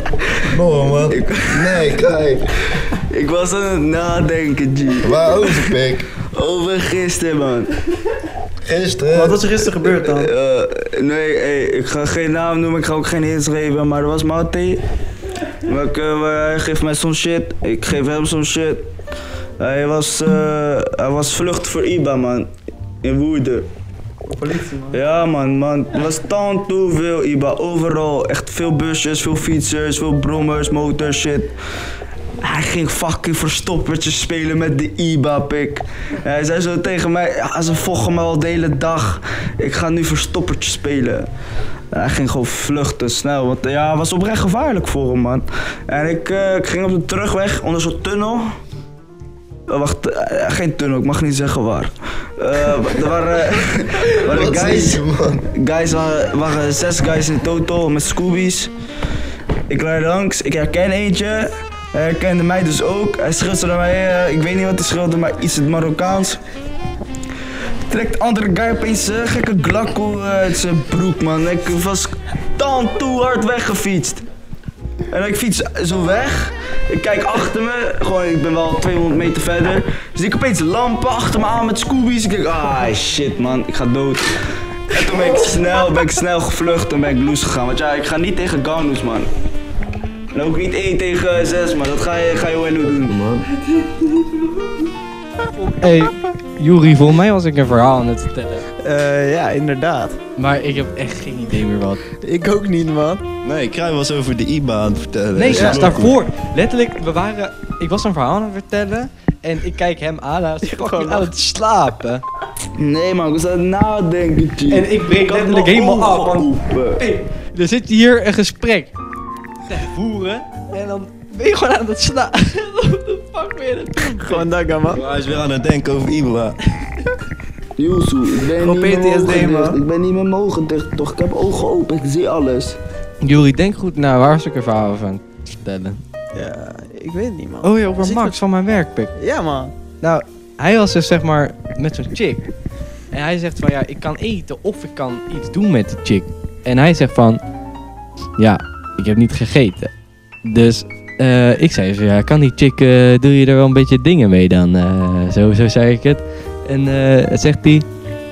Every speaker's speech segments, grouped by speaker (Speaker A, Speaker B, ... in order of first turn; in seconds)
Speaker A: 0.4-2.5, 5.0-6.1, 8.6-9.4, 54.1-55.5, 92.9-93.5, 103.4-106.2, 124.9-126.6
Speaker B: 1.1-1.9, 2.7-7.7, 9.8-14.8, 15.6-18.8, 19.6-22.5, 23.0-23.7, 24.9-31.5, 32.4-41.3, 41.9-48.5, 49.7-55.0, 55.5-58.7, 59.7-66.4, 67.9-74.2, 75.1-89.3, 90.3-93.2, 112.8-117.0, 127.8-132.8
Speaker C: 9.1-10.3, 24.3-25.0, 98.8-100.2, 102.2-103.2, 105.5-105.8, 110.6-111.3, 124.1-125.0, 128.5-129.8, 136.3-138.4, 139.1-139.7
Speaker D: 95.6-98.7, 100.4-102.0, 105.3-112.2, 114.7-118.9, 119.7-124.5, 133.2-136.0, 137.6-139.1, 140.0-142.5, 143.1-147.4, 148.4-149.9, 150.4-157.8